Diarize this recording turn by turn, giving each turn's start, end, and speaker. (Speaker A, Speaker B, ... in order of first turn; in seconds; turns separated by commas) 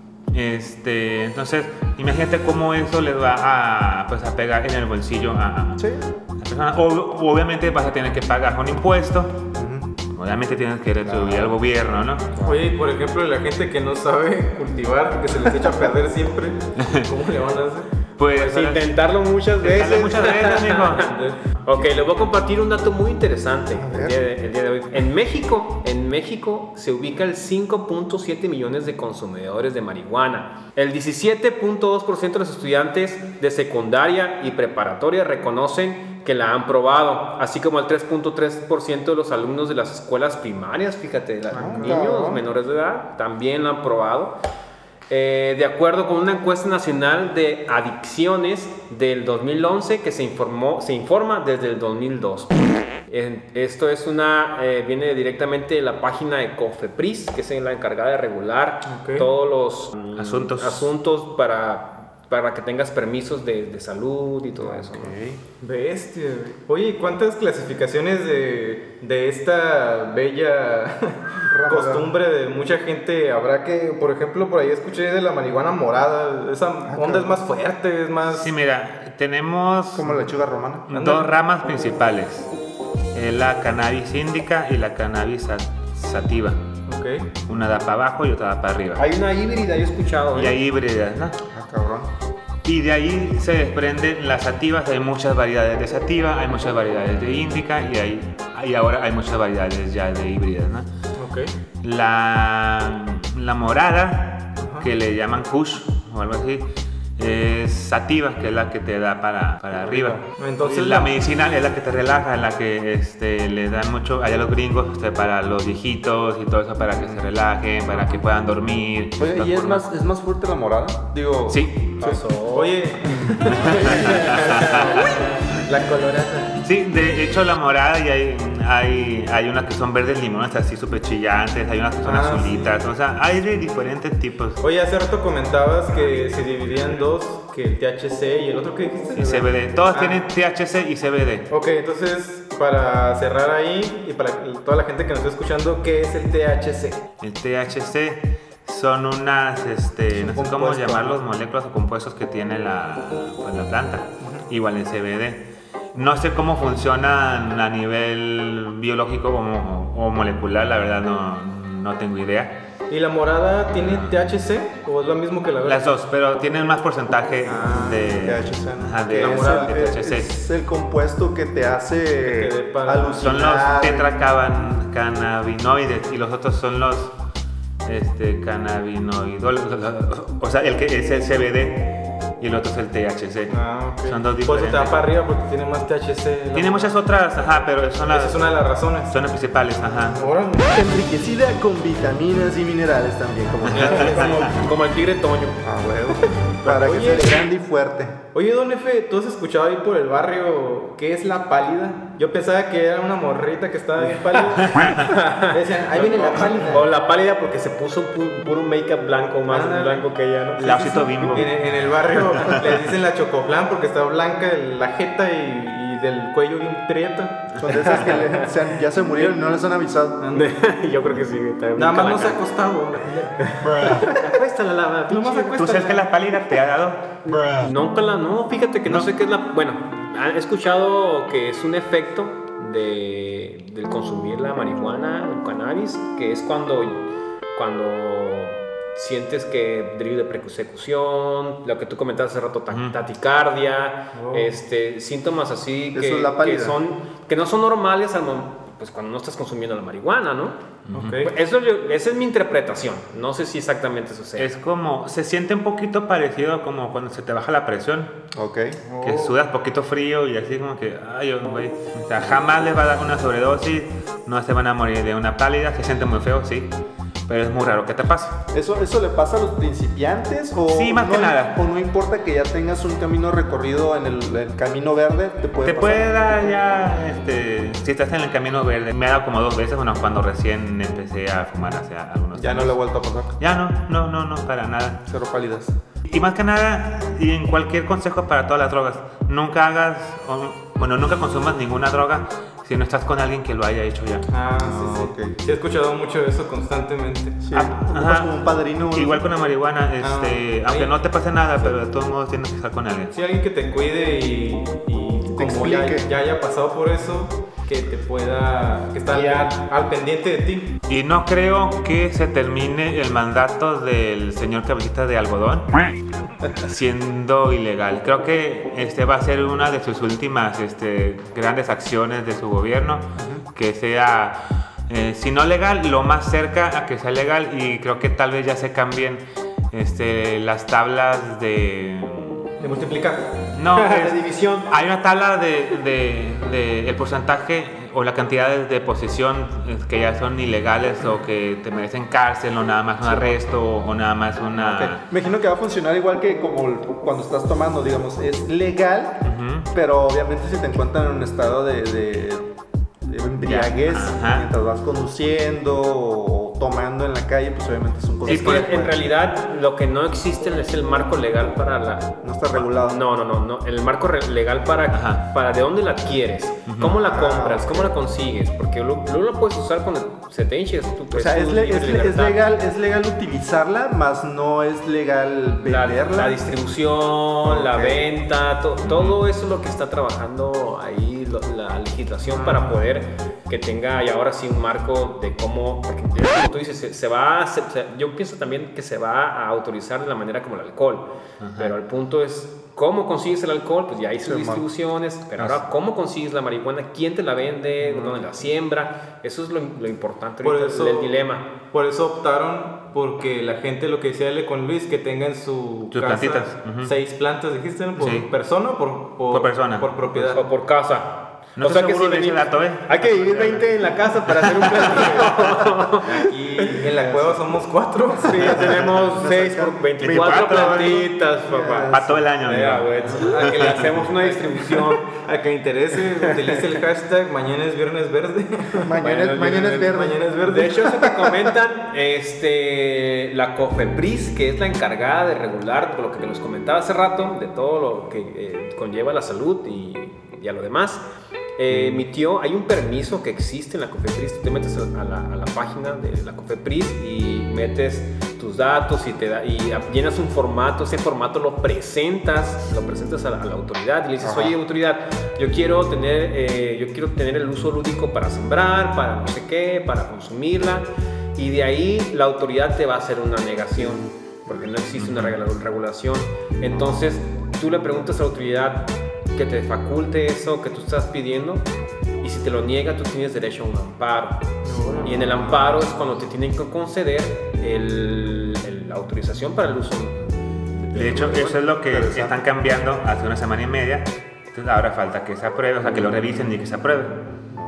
Speaker A: 0.3-5.8, Speaker B: 5.8-6.1, Speaker A: 6.4-9.4, Speaker B: 9.6-10.0, Speaker A: 10.1-12.3, Speaker B: 11.0-11.6, Speaker B: 12.3-12.6, Speaker C: 12.4-17.9, Speaker A: 16.8-17.1, Speaker A: 18.2-18.9, Speaker D: 18.3-21.1, Speaker A: 19.6-21.1, Speaker C: 21.0-21.4, Speaker D: 21.6-44.4, Speaker B: 23.7-24.3, Speaker B: 41.5-42.4, Speaker C: 41.6-42.0, Speaker D: 45.1-52.6, Speaker D: 53.1-65.1, Speaker C: 58.9-59.3, Speaker A: 60.2-60.9, Speaker B: 64.6-65.4, Speaker C: 65.6-67.0, Speaker C: 68.7-69.3, Speaker C: 70.3-70.6, Speaker B: 71.4-72.1, Speaker C: 71.7-73.2, Speaker C: 74.2-74.8, Speaker C: 76.6-78.5, Speaker B: 76.9-77.4, Speaker A: 78.3-80.1, Speaker B: 80.0-80.9, Speaker A: 80.9-82.5, Speaker C: 80.9-81.3, Speaker A: 83.1-86.6, Speaker C: 86.9-87.3, Speaker A: 87.5-89.1, Speaker D: 89.0-90.6, Speaker A: 90.3-91.3, Speaker B: 91.5-92.1, Speaker A: 92.7-100.9, Speaker C: 101.2-101.5, Speaker A: 101.8-119.8, Speaker C: 104.6-104.9, Speaker C: 110.3-111.1, Speaker B: 119.2-121.7, Speaker A: 121.5-121.8, Speaker D: 122.0-122.8, Speaker C: 122.0-126.5, Speaker A: 123.6-125.1, Speaker A: 126.6-134.6, Speaker C: 132.0-132.6, Speaker C: 134.6-139.3, Speaker A: 139.2-141.5, Speaker C: 139.9-140.2, Speaker C: 141.5-146.9, Speaker A: 147.2-162.5, Speaker B: 150.5-151.0, Speaker C: 162.9-165.8, Speaker A: 163.8-164.2, Speaker A: 165.6-170.3, Speaker C: 167.5-168.0, Speaker B: 168.2-174.1, Speaker C: 169.2-169.8, Speaker C: 172.2-173.2, Speaker A: 173.2-177.1, Speaker A: 177.8-185.0, Speaker C: 183.5-186.9, Speaker A: 186.5-190.2, Speaker C: 188.1-189.1, Speaker C: 190.2-190.9, Speaker B: 190.6-194.2, Speaker A: 193.7-194.5, Speaker C: 193.7-194.4, Speaker D: 193.8-195.6, Speaker B: 195.6-198.2, Speaker C: 196.6-197.5, Speaker C: 198.3-204.7, Speaker A: 204.8-205.1, Speaker D: 205.0-211.4, Speaker C: 205.5-206.8, Speaker C: 209.5-209.9, Speaker A: 210.6-211.5, Speaker C: 211.3-217.3, Speaker B: 217.6-220.3, Speaker D: 217.8-218.4, Speaker D: 220.3-222.4, Speaker C: 221.8-224.1, Speaker D: 223.4-225.9, Speaker C: 225.1-225.9, Speaker A: 225.6-227.0, Speaker D: 227.3-237.0, Speaker D: 237.6-250.6, Speaker A: 242.7-243.0, Speaker C: 244.1-244.5, Speaker B: 245.9-246.8, Speaker A: 250.9-251.2, Speaker C: 250.9-251.3, Speaker D: 251.2-254.5, Speaker A: 254.4-258.1, Speaker B: 258.3-258.8, Speaker C: 258.9-259.3, Speaker A: 259.0-266.7, Speaker A: 267.3-268.4, Speaker B: 268.5-276.1, Speaker A: 270.7-271.6, Speaker A: 275.6-282.7, Speaker B: 282.4-283.4, Speaker A: 283.4-285.0, Speaker B: 285.1-285.8, Speaker A: 286.1-294.2, Speaker C: 294.3-297.4, Speaker B: 294.6-295.4, Speaker B: 297.4-299.2, Speaker A: 297.5-298.4, Speaker A: 298.9-303.1, Speaker C: 300.0-300.9, Speaker C: 303.1-310.7, Speaker B: 305.3-306.1, Speaker D: 309.1-309.5, Speaker A: 310.9-315.7, Speaker A: 316.6-332.5, Speaker B: 323.2-323.4, Speaker C: 332.6-333.4, Speaker A: 333.5-345.0, Speaker D: 333.8-334.7, Speaker B: 344.6-352.4, Speaker A: 349.2-349.7, Speaker B: 353.0-359.0, Speaker A: 353.4-354.5, Speaker D: 358.2-372.4, Speaker A: 358.3-358.7, Speaker B: 362.2-363.0, Speaker A: 364.9-365.2, Speaker A: 366.7-367.0, Speaker B: 367.0-367.9, Speaker B: 371.1-376.4, Speaker D: 375.6-401.5, Speaker B: 377.4-378.1, Speaker A: 378.9-379.2, Speaker C: 382.4-382.6, Speaker A: 391.4-391.7, Speaker B: 394.2-394.6, Speaker C: 400.4-401.1, Speaker C: 401.7-410.4, Speaker A: 405.9-406.9, Speaker A: 408.0-408.3, Speaker A: 409.3-409.9, Speaker D: 410.1-416.2, Speaker A: 411.6-413.7, Speaker A: 414.4-415.3, Speaker C: 416.1-418.4, Speaker B: 416.9-417.5, Speaker D: 418.2-425.0, Speaker B: 418.4-422.2, Speaker A: 420.0-421.1, Speaker A: 421.9-423.9, Speaker C: 423.1-423.7, Speaker C: 425.1-430.7, Speaker D: 426.3-426.6, Speaker B: 428.8-430.2, Speaker D: 429.0-429.8, Speaker D: 430.4-441.0, Speaker D: 441.6-471.7, Speaker B: 454.2-454.6, Speaker A: 465.0-465.4, Speaker D: 472.2-481.6, Speaker C: 474.6-475.4, Speaker A: 480.9-487.2, Speaker B: 481.4-482.4